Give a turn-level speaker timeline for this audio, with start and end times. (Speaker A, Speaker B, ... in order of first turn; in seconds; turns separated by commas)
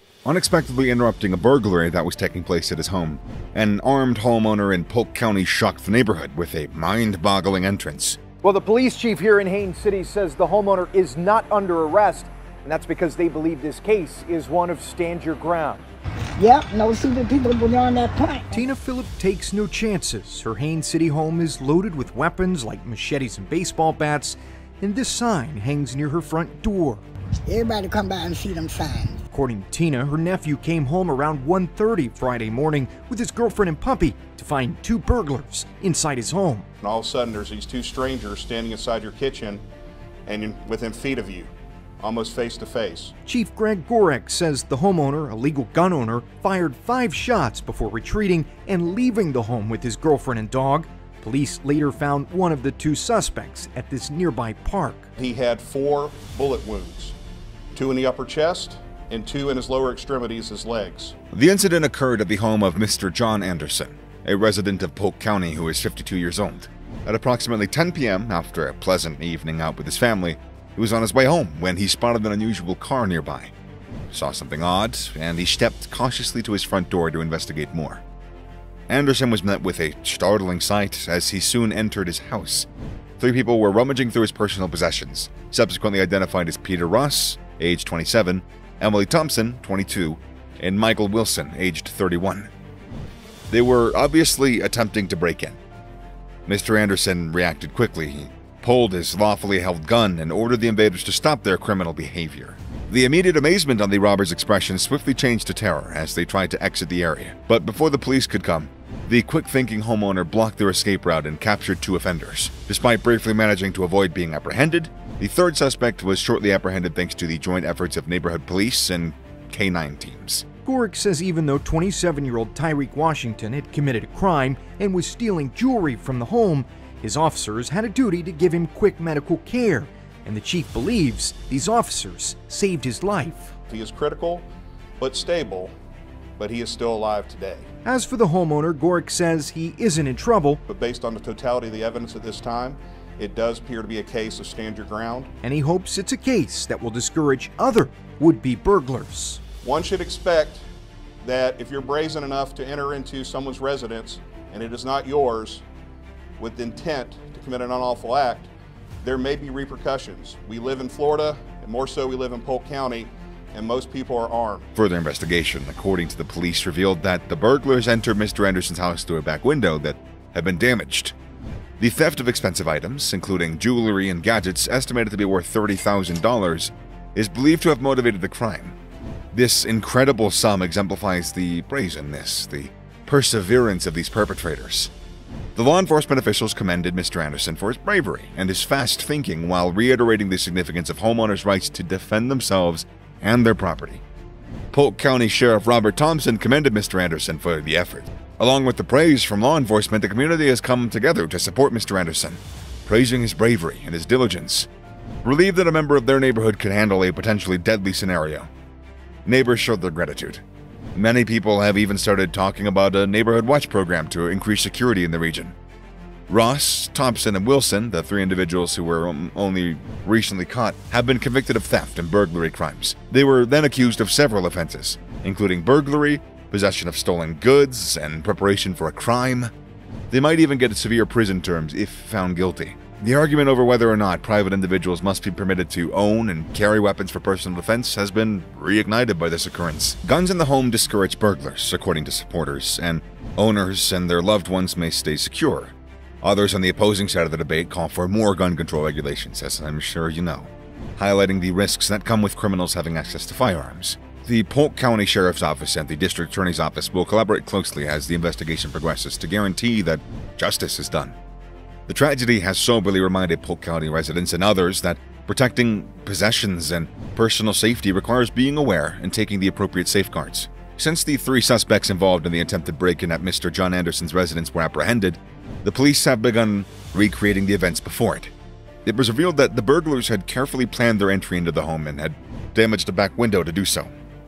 Speaker A: 0.2-8.2, Speaker B: 8.4-15.8, Speaker C: 16.4-18.6, Speaker B: 18.5-27.0, Speaker C: 27.4-29.2, Speaker B: 29.3-36.6, Speaker D: 36.8-39.6, Speaker D: 40.2-43.1, Speaker B: 43.2-55.1, Speaker D: 55.2-57.1, Speaker D: 57.7-61.1, Speaker A: 61.3-73.5, Speaker A: 74.1-78.0, Speaker A: 78.9-82.7, Speaker A: 83.2-92.5, Speaker A: 93.5-95.6, Speaker A: 96.5-120.5, Speaker B: 120.6-133.5, Speaker D: 133.7-134.5, Speaker D: 135.0-135.7, Speaker D: 136.4-137.7, Speaker B: 137.8-140.6, Speaker D: 140.7-145.3, Speaker B: 145.4-149.4, Speaker D: 149.6-150.6, Speaker D: 151.2-155.6, Speaker D: 156.4-158.5, Speaker D: 159.0-164.7, Speaker A: 164.8-171.1, Speaker A: 171.8-178.8, Speaker A: 179.3-184.9, Speaker A: 185.5-194.0, Speaker A: 194.7-204.7, Speaker A: 205.2-208.5, Speaker A: 209.2-210.4, Speaker A: 210.9-215.5, Speaker A: 216.3-229.5, Speaker A: 230.1-261.1, Speaker A: 261.9-278.3, Speaker A: 278.8-283.9